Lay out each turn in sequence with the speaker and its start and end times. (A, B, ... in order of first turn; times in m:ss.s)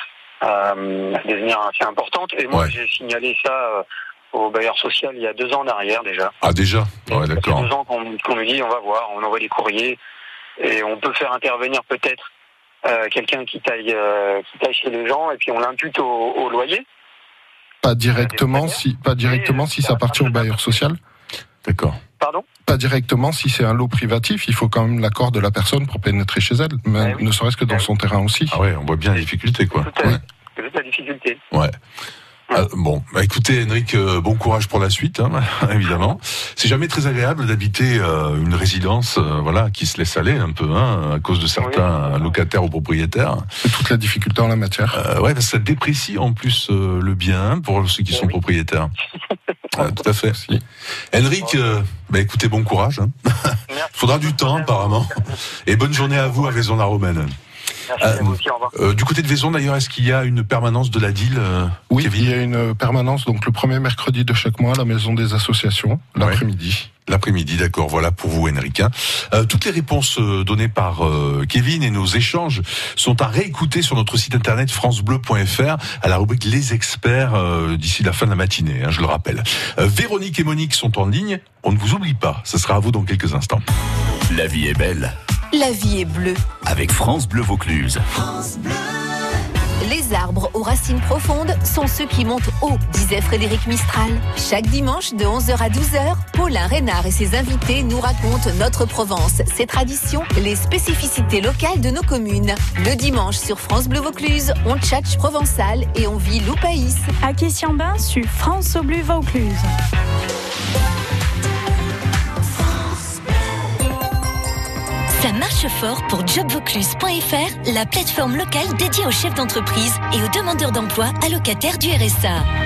0:00.4-0:06.3 A
0:06.4-0:07.7 B
0:07.1-0:10.0 A
0:10.6-0:12.2 A
0:12.8-0:16.8 A
0:17.8-0:21.0 C
0:18.1-0:20.8 A
0:21.6-0:22.0 B
0:22.2-0:22.4 A
0:22.6-0:28.6 C
0:27.0-0:27.9 A
0:28.5-0:30.2 B
0:29.8-0:31.4 A
0:31.5-0:31.8 B
0:32.5-0:43.5 B
0:41.6-0:42.3 A
0:43.6-0:45.0 C
0:44.9-0:48.9 B
0:49.7-0:57.3 B
0:53.7-0:55.3 A
0:56.0-0:56.6 A
0:57.9-0:58.7 A
0:58.0-1:02.3 B
1:01.9-1:06.9 C
1:07.0-1:23.6 B
1:24.3-1:25.1 D
1:25.5-1:26.4 E
1:26.6-1:28.2 D
1:29.8-1:47.1 E
1:47.2-1:49.7 F
1:55.1-2:02.5 G